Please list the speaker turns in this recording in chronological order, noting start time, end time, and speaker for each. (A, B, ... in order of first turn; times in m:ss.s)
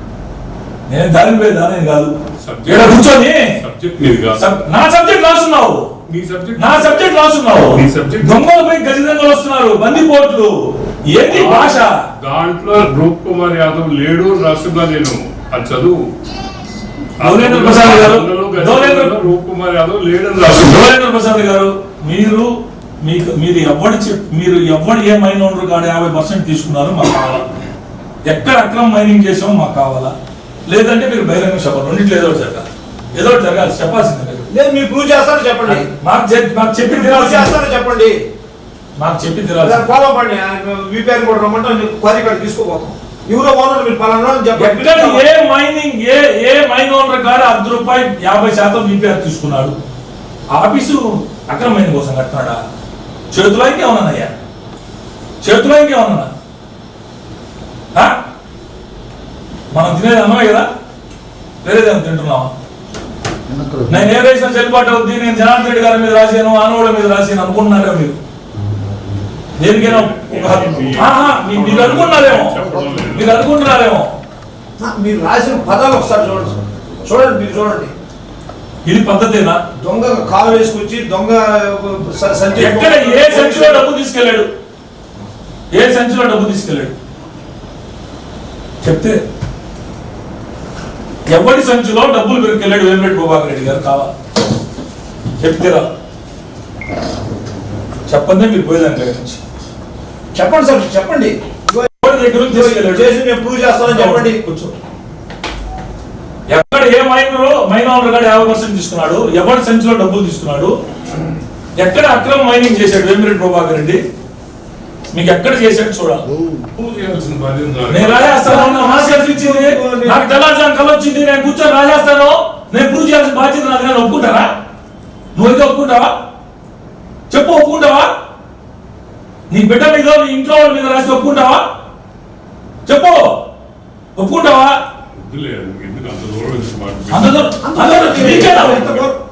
0:00.9-0:02.1 A
0:02.4-0:04.5 B
0:02.6-0:03.5 A
0:04.4-0:05.9 A
0:06.1-0:07.0 B
0:06.6-0:12.0 A
0:07.7-0:08.5 B
0:11.2-0:16.0 B
0:17.2-0:20.8 B
0:17.2-0:19.1 A
0:20.4-0:27.4 A
0:28.2-0:30.1 A
0:30.7-0:34.5 A
0:34.5-0:35.8 C
0:35.7-0:37.5 A
0:36.8-0:38.1 C
0:39.0-0:39.8 A
0:39.6-0:45.2 C
0:44.6-0:49.7 A
0:50.5-0:52.6 A
0:53.3-0:54.3 A
0:55.4-0:56.3 A
0:59.7-1:00.6 A
1:01.6-1:02.5 A
1:03.9-1:08.2 A
1:09.6-1:12.6 A
1:09.8-1:13.5 B
1:13.1-1:14.1 A
1:14.8-1:17.9 C
1:18.8-1:19.6 A
1:19.8-1:23.8 C
1:22.5-1:24.5 A
1:25.7-1:26.9 A
1:28.8-1:29.2 A
1:31.3-1:34.1 A
1:35.4-1:35.9 A
1:38.1-1:39.4 A
1:40.3-1:44.4 C
1:42.0-1:43.2 A
1:43.9-1:44.7 A
1:46.5-1:50.8 A
1:51.8-1:54.0 A
1:55.1-1:56.2 A
1:56.7-1:58.4 B
1:57.9-2:04.5 A
1:58.4-2:00.3 C
2:05.3-2:06.1 A
2:07.3-2:08.1 A
2:09.5-2:11.6 A
2:12.8-2:13.4 A
2:14.2-2:14.8 A
2:15.1-2:17.5 B
2:17.1-2:19.0 A
2:17.6-2:19.2 C
2:18.2-2:19.0 B